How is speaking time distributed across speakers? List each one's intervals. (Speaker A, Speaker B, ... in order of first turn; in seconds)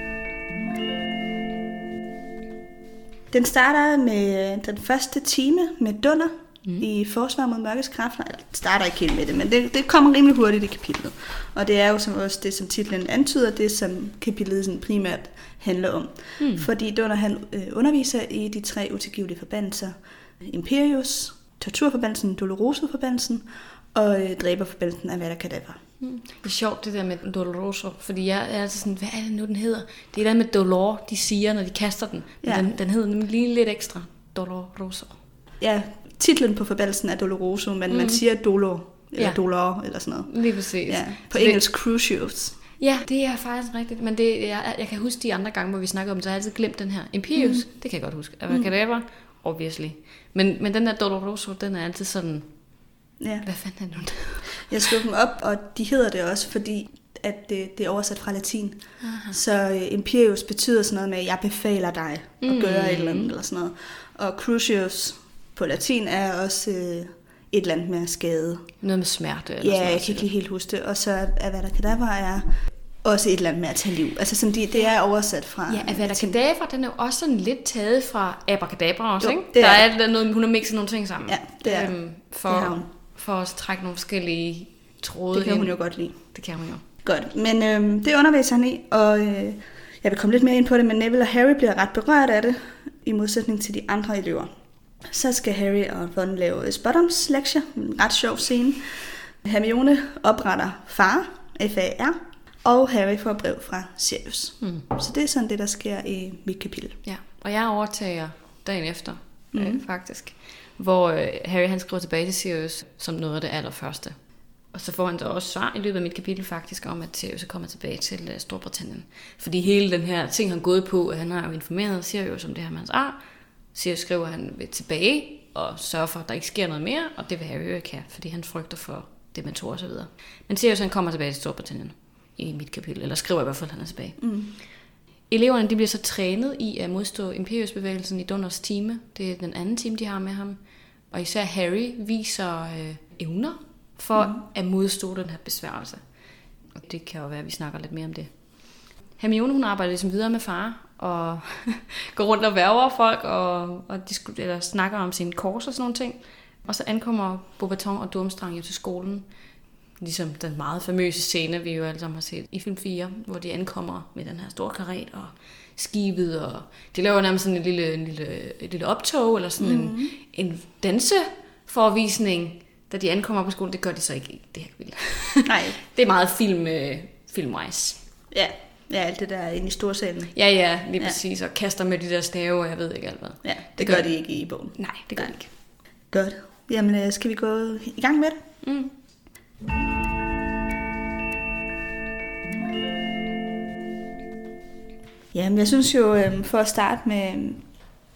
Speaker A: 3.3-25.8, 32.4-32.7, 35.6-42.6, 47.4-47.8, 53.2-53.5, 54.5-68.8, 69.6-76.4, 79.2-79.9, 81.3-81.9, 82.5-82.9, 85.3-86.2, 87.0-94.5, 95.0-107.0, 109.5-109.8, 134.2-134.6, 144.2-144.4, 169.6-170.2, 175.5-175.8, 178.3-180.4, 183.4-185.4, 186.1-188.4, 195.3-197.6
Speaker B: 16.4-16.7, 26.0-35.2, 37.9-38.3, 39.2-41.6, 42.8-52.8, 53.4-54.7, 59.0-59.4, 62.4-63.3, 68.8-70.3, 75.7-86.8, 107.0-134.3, 135.3-146.0, 146.8-159.3, 159.9-178.0, 180.3-184.1, 184.7-185.5, 188.6-188.9